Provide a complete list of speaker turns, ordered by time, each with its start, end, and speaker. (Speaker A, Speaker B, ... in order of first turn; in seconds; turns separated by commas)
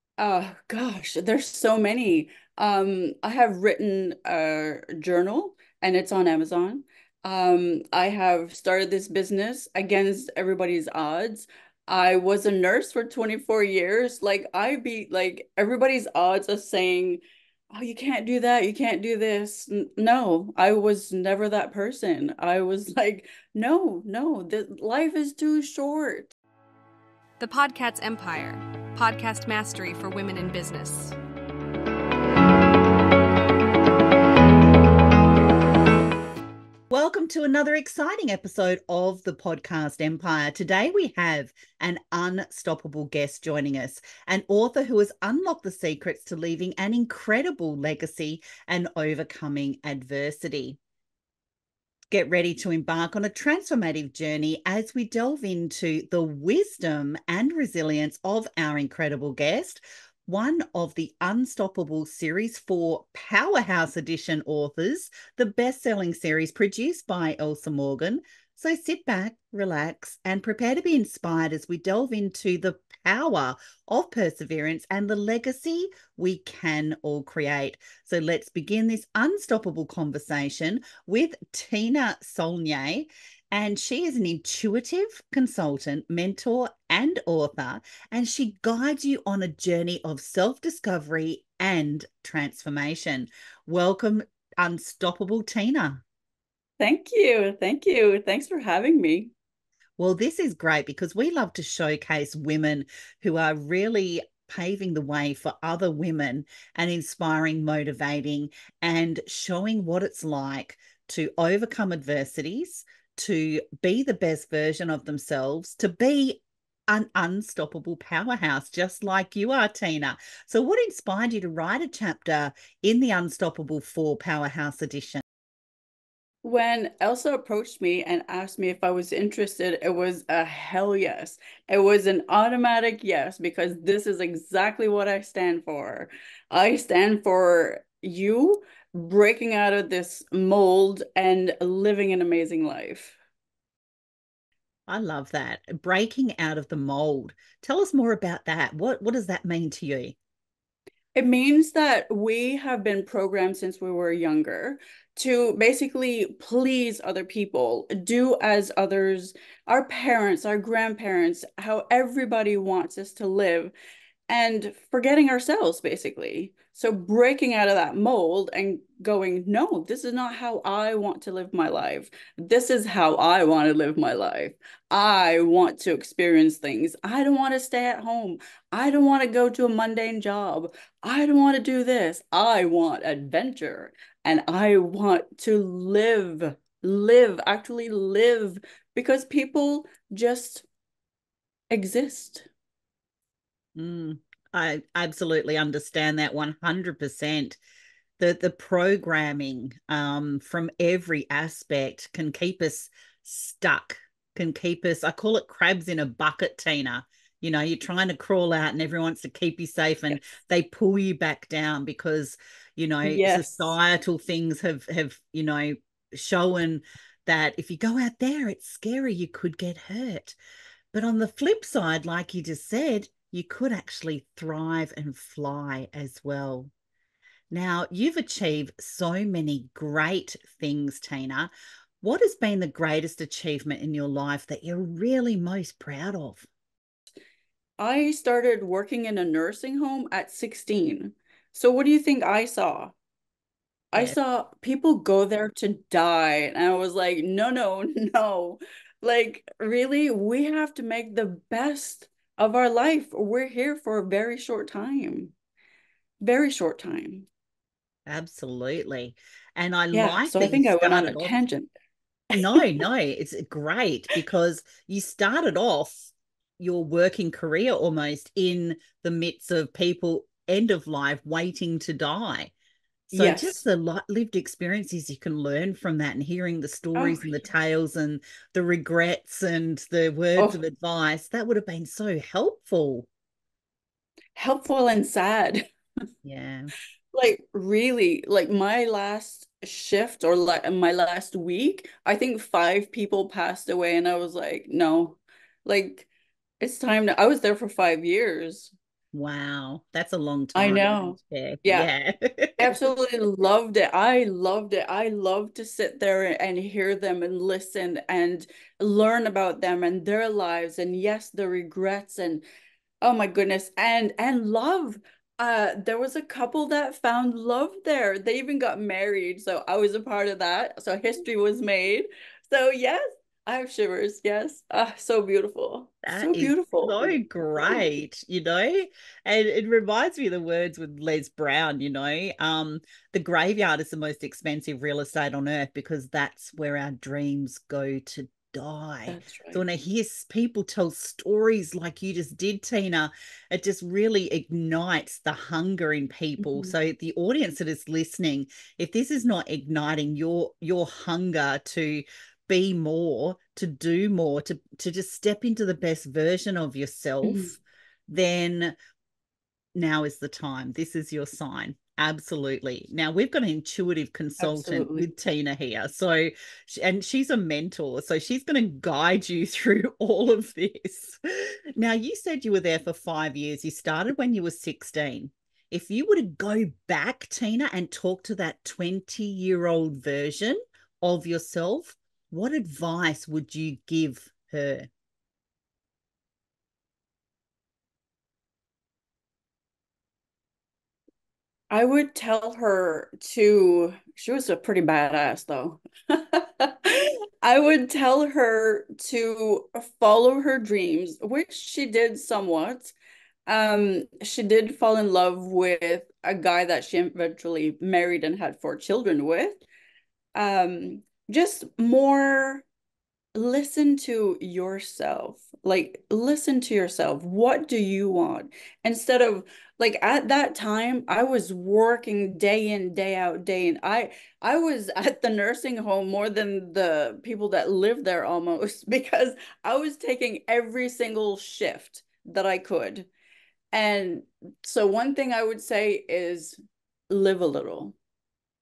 Speaker A: 0.2-26.3, Speaker B: 27.4-31.2, Speaker C: 36.9-50.8, Speaker C: 52.1-96.0, Speaker A: 96.8-99.3, Speaker C: 100.0-125.2, Speaker A: 126.4-143.2, Speaker C: 144.9-150.2, Speaker A: 151.2-163.7, Speaker A: 164.3-190.7, Speaker A: 191.7-192.5, Speaker C: 193.8-197.6, Speaker C: 198.2-220.4, Speaker A: 213.0-213.7, Speaker C: 220.9-226.7, Speaker C: 227.5-231.5, Speaker C: 232.0-236.5, Speaker A: 237.8-242.9, Speaker A: 243.9-255.3, Speaker A: 256.2-257.3, Speaker C: 258.1-261.4, Speaker A: 259.9-261.7, Speaker C: 262.3-272.5, Speaker C: 273.1-283.1, Speaker A: 273.1-273.6, Speaker A: 276.9-277.4, Speaker A: 284.4-285.6, Speaker C: 286.2-286.7, Speaker A: 287.1-296.1, Speaker A: 296.6-298.7, Speaker C: 299.1-302.8, Speaker A: 300.6-301.9, Speaker A: 302.6-312.4, Speaker A: 313.0-327.9, Speaker C: 326.1-358.8, Speaker A: 339.1-339.6, Speaker A: 346.4-346.7, Speaker A: 357.2-357.5, Speaker C: 359.8-371.2, Speaker A: 364.4-365.1, Speaker C: 371.8-384.9, Speaker A: 391.7-402.9, Speaker A: 403.5-409.6, Speaker A: 410.4-412.7, Speaker A: 413.4-433.1, Speaker A: 433.7-436.6, Speaker A: 437.1-438.0